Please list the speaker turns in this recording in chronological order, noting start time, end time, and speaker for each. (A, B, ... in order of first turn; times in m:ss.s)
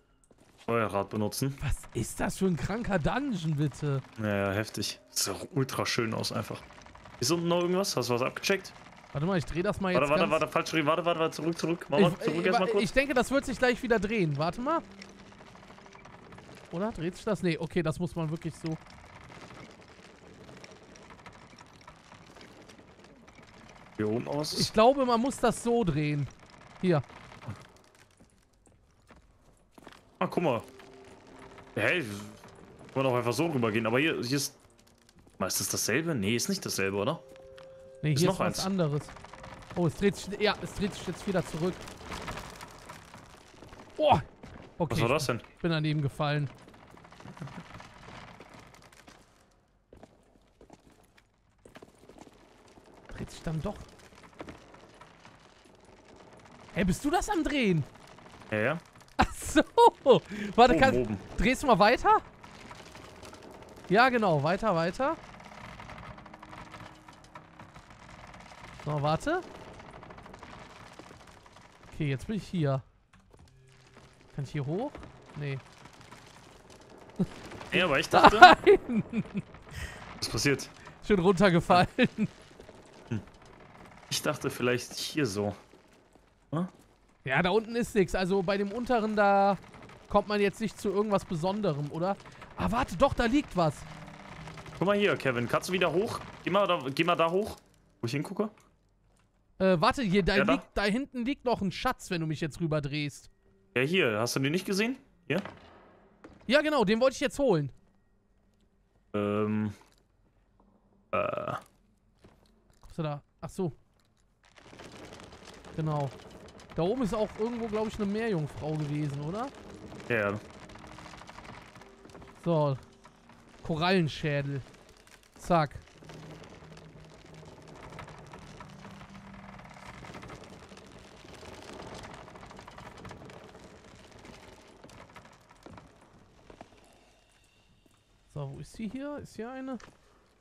0:00.6-0:01.6 A
0:01.6-0:04.0 B
0:04.2-0:06.6 A
0:07.2-0:08.7 A
0:09.1-0:10.4 B
0:09.9-0:12.9 A
0:11.9-0:14.8 B
0:16.7-0:18.8 B
0:24.0-0:24.7 A
0:24.5-0:27.0 B
0:30.2-0:30.7 A
0:31.7-0:34.6 A
0:35.4-0:37.2 A
0:38.0-0:39.1 B
0:38.1-0:38.7 A
0:39.7-0:41.8 B
0:44.0-0:44.2 B
0:44.8-0:46.5 B
0:44.9-0:45.4 A
0:53.1-0:53.9 B
0:56.7-0:57.9 B
0:58.5-0:58.8 A
0:59.2-1:02.2 B
1:00.6-1:01.2 A
1:03.9-1:05.2 B
1:08.8-1:09.4 B
1:11.9-1:12.8 B
1:14.3-1:15.6 B
1:17.2-1:19.4 B
1:17.7-1:18.6 A
1:20.2-1:20.7 A
1:21.0-1:22.3 B
1:24.1-1:25.6 A
1:27.2-1:33.9 B
1:34.8-1:38.5 A
1:39.6-1:43.3 B
1:40.3-1:40.6 A
1:43.7-1:45.5 A
1:46.5-1:47.7 B
1:49.1-1:49.7 A
1:51.1-1:51.6 A
1:52.8-1:53.8 B
1:55.7-1:56.1 B
1:56.8-1:59.5 B
2:00.1-2:00.4 A
2:02.4-2:02.8 B
2:03.6-2:04.6 B
2:05.4-2:05.8 B
2:18.3-2:19.8 B